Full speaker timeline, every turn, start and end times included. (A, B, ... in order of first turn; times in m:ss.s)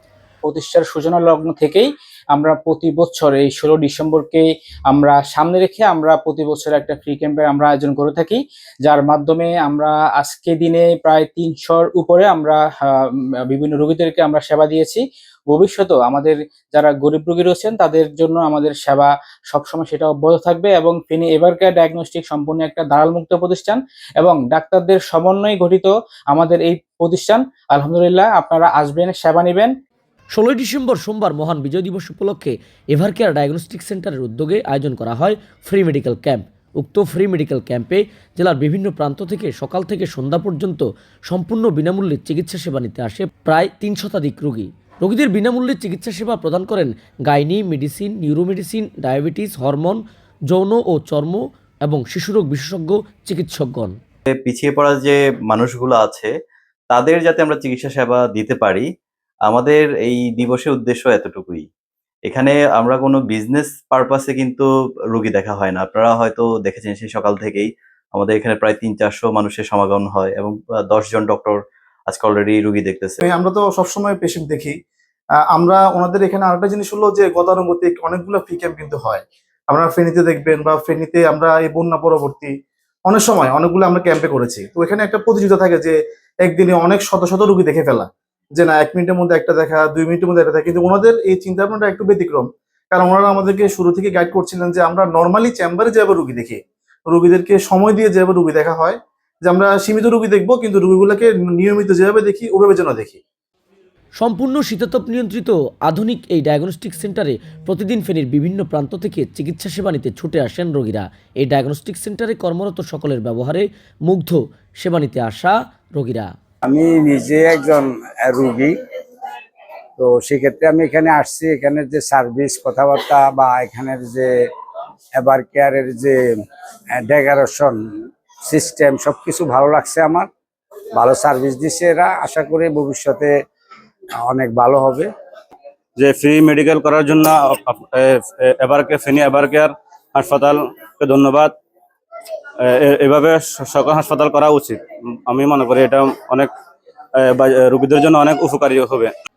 0:00.4-0:29.7 A
0:30.3-0:53.9 B
0:54.3-0:56.3 C
0:56.9-0:58.9 C
0:59.5-1:01.6 C
1:02.3-1:13.2 C
1:13.4-1:14.7 D
1:15.6-1:19.2 D
1:19.8-1:22.5 D
1:23.1-1:25.9 D
1:26.5-1:28.0 D
1:28.6-1:32.4 D
1:33.0-1:36.6 D
1:37.1-1:38.9 D
1:39.5-1:43.2 D
1:44.2-1:56.3 B
1:56.6-1:58.8 E
2:00.0-2:04.3 E
2:05.2-2:06.2 E
2:06.9-2:10.3 E
2:11.0-2:13.4 E
2:14.2-2:15.1 E
2:16.0-2:21.5 F
2:22.6-2:26.5 F
2:27.2-2:29.1 F